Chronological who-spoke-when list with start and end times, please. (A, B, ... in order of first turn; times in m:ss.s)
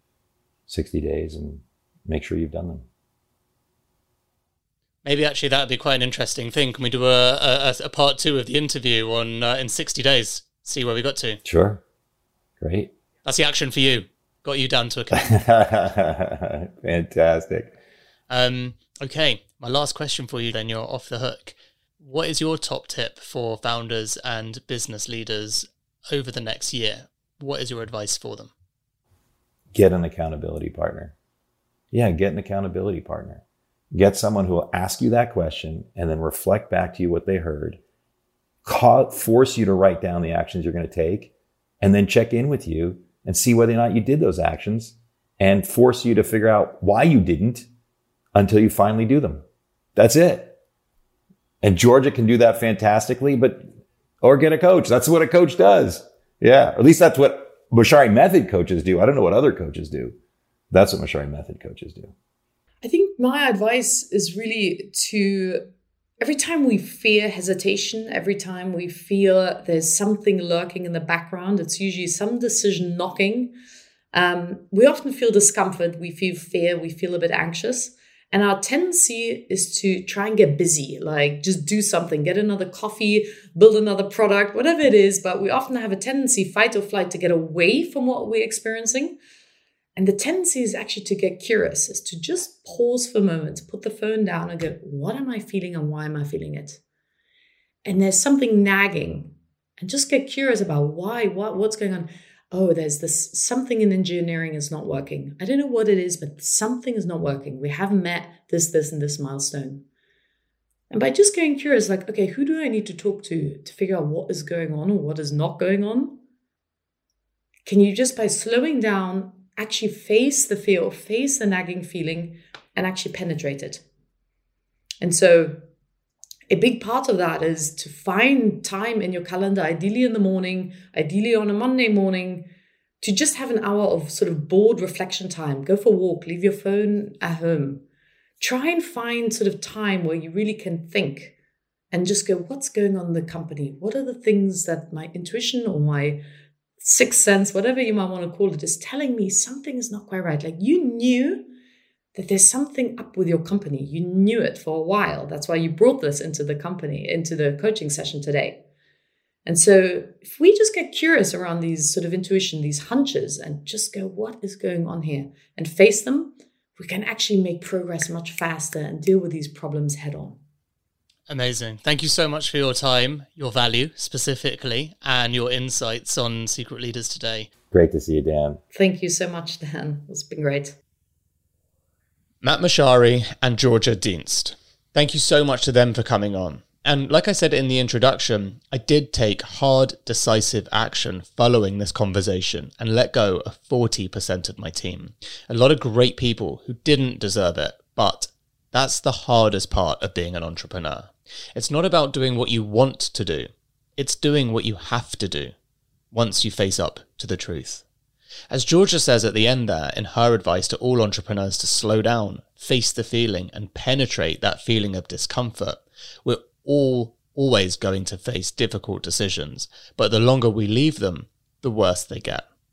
0:00.7-0:02.9 A
0:05.0-0:11.4 B
0:11.4-0:11.8 A
0:12.6-0:12.9 A
0:13.2-0:15.3 B
0:15.1-0:17.7 A
0:18.3-0:28.5 B
0:29.7-0:31.1 A
0:31.9-0:37.8 A
0:38.6-0:47.7 A
0:48.3-0:49.4 A
0:50.0-0:50.6 A
0:51.6-0:53.6 A
0:54.2-1:00.1 A
1:00.7-1:02.1 A
1:02.8-1:05.6 C
1:06.2-1:13.5 C
1:14.1-1:29.2 C
1:30.0-1:36.8 C
1:37.8-1:49.8 C
1:50.9-1:56.2 C
1:57.7-2:03.8 C
2:05.0-2:05.6 C
2:06.5-2:12.5 C
2:13.0-2:17.8 C
2:18.4-2:21.3 C
2:21.9-2:26.2 C
2:26.8-2:31.5 C
2:32.1-2:38.6 C
2:39.5-2:50.4 C
2:51.3-2:57.5 B
2:57.7-2:58.6 A
2:58.7-3:00.8 C
3:02.4-3:25.5 B
3:26.1-3:27.8 B
3:28.5-3:42.4 B